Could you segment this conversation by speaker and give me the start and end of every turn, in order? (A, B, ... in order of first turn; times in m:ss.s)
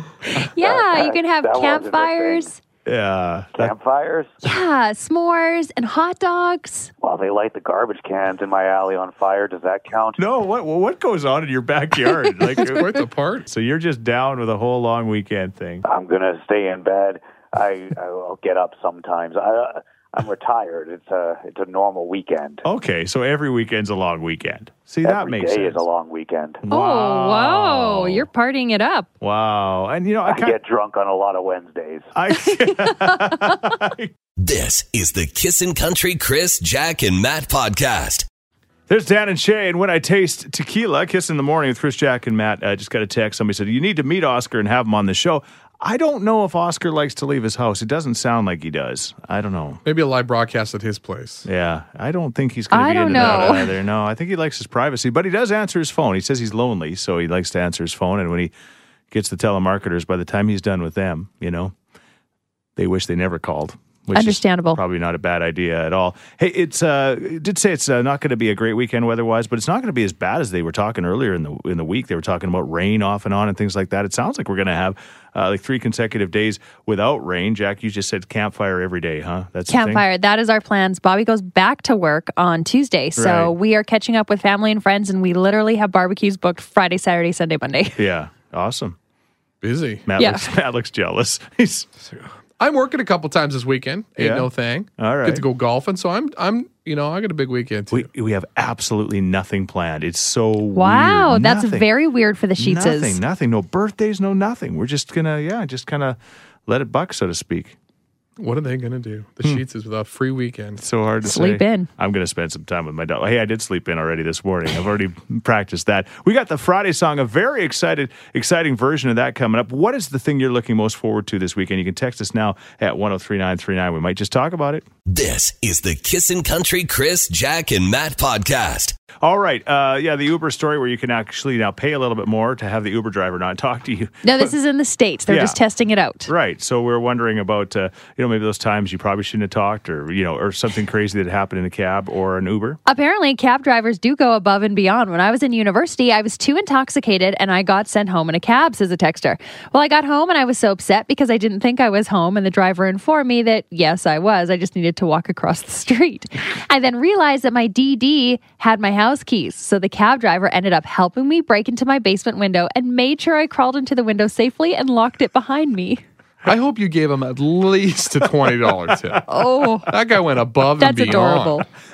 0:00.2-0:02.6 A
0:00.4-0:02.5 B
0:02.8-0:03.7 C
0:03.6-0:04.4 B
0:04.4-0:06.9 A
0:07.0-0:10.2 B
0:10.2-0:15.8 C
0:12.6-0:13.5 D
0:15.8-0:22.6 B
0:22.6-0:25.8 C
0:25.0-0:26.6 B
0:26.6-0:28.3 C
0:26.7-0:29.1 A
0:29.2-0:30.6 C
0:30.2-0:32.1 B
0:32.1-0:34.1 C
0:32.8-0:33.3 A
0:34.4-0:38.2 E
0:38.9-0:49.8 C
0:49.8-0:51.5 D
0:51.4-0:58.5 C
0:52.7-0:53.7 A
0:59.1-1:01.7 C
1:02.8-1:20.0 C
1:04.1-1:04.8 A
1:19.7-1:28.1 A
1:23.2-1:23.5 C
1:28.0-1:29.0 C
1:29.6-1:30.0 D
1:30.0-1:31.9 C
1:30.2-1:30.5 A
1:32.2-1:38.1 D
1:34.2-1:35.4 C
1:37.9-1:41.9 C
1:40.7-1:43.2 A
1:42.6-1:47.8 C
1:48.4-1:50.8 D
1:50.8-2:04.8 C
1:51.2-1:51.9 A
2:05.1-2:08.9 E
2:09.2-2:14.5 C
2:14.2-2:16.3 A
2:15.3-2:15.6 C
2:16.2-2:22.8 C
2:22.8-2:46.0 A
2:46.4-2:49.2 D
2:49.3-2:49.9 A
2:49.9-2:51.6 D
2:50.8-2:51.6 A
2:51.1-2:51.4 C